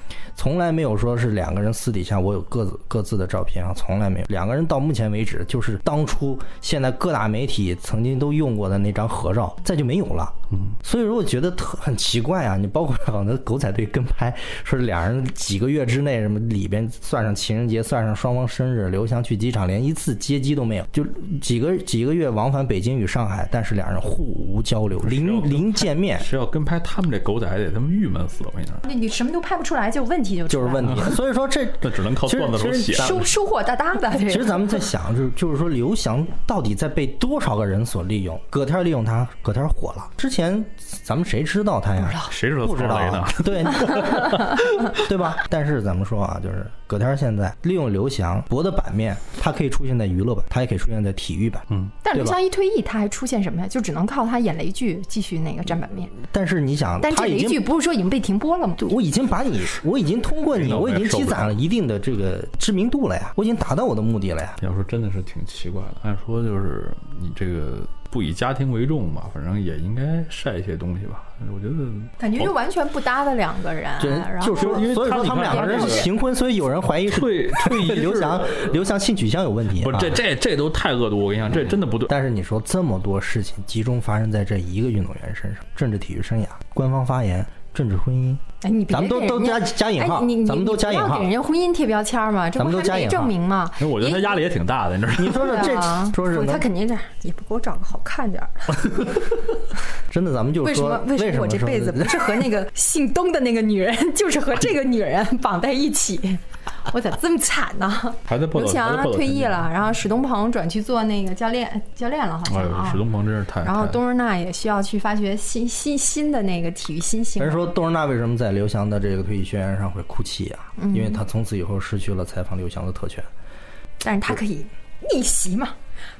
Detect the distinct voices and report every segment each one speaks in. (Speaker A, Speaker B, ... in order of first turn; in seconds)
Speaker A: 0.3-26.3, 30.5-33.3, 34.3-52.4, 56.2-57.6, 58.8-64.6, 74.0-80.2, 82.1-91.3, 92.6-93.3, 95.2-96.6, 100.1-102.3, 117.4-123.3
Speaker B: 25.0-28.8, 30.9-31.1, 31.8-33.2, 42.1-45.0, 60.5-61.6, 64.6-72.5, 74.5-76.1, 77.1-78.8, 79.8-82.1, 93.8-95.6, 108.3-109.7, 112.5-114.0
Speaker C: 28.8-31.1, 32.9-34.8, 52.0-56.1, 57.0-58.9, 72.2-76.1, 88.6-94.4, 95.3-99.1, 100.6-113.0, 113.6-117.7, 120.8-121.2, 124.0-125.8